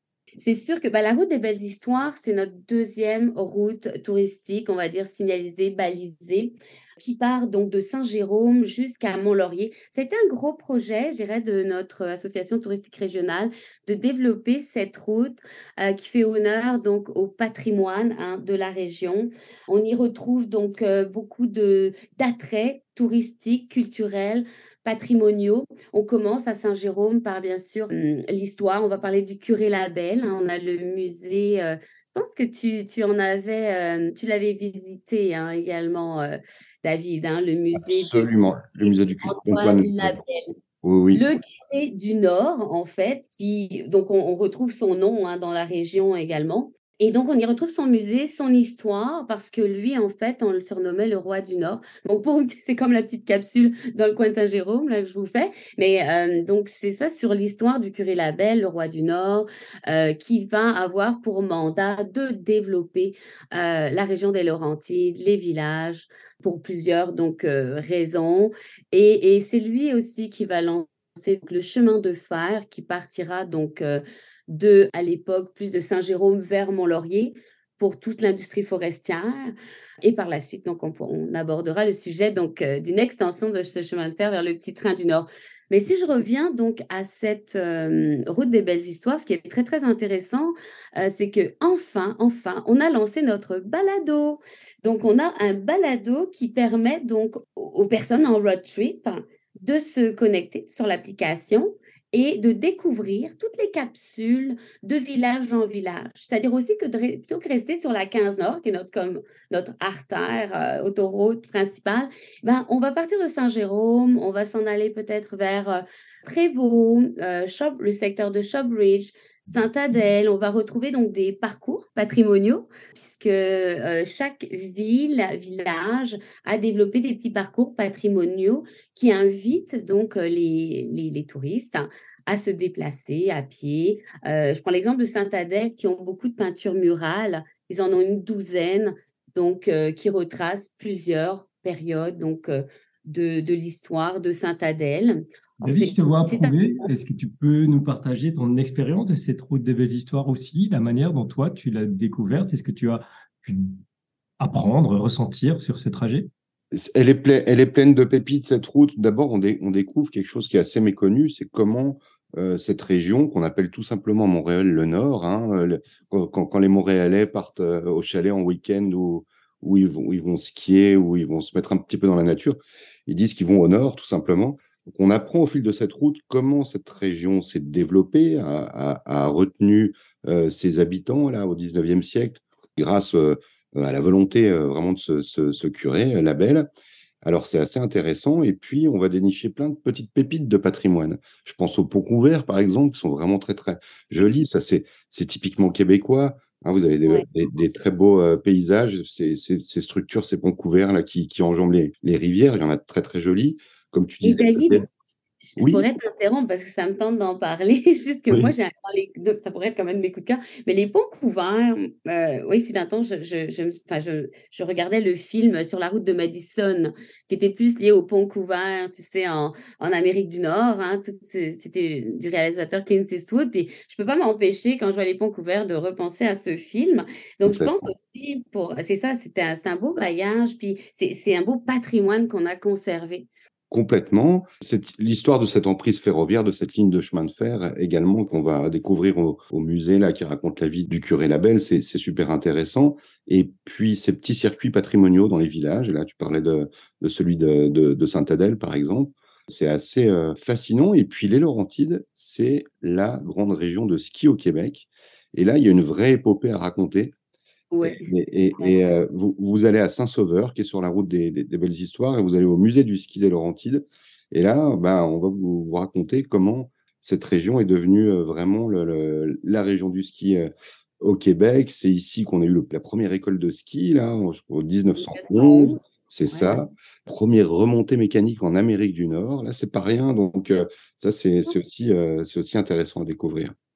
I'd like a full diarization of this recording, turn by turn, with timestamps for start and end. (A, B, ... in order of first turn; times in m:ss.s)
0:00.4-0:38.3 A
0:37.7-0:40.2 B
0:38.8-0:40.5 A
0:40.8-0:41.2 B
0:41.1-2:26.6 A
2:25.6-2:33.8 C
2:34.4-2:36.3 C
2:36.7-3:06.7 B
3:07.2-3:24.8 B
3:24.2-3:24.8 A
3:25.4-3:53.3 A
3:25.6-3:25.8 B
3:47.4-3:47.7 B
3:53.7-4:17.1 B
4:17.7-4:18.0 A
4:17.8-4:30.5 B
4:31.0-4:43.5 B
4:35.0-4:36.6 A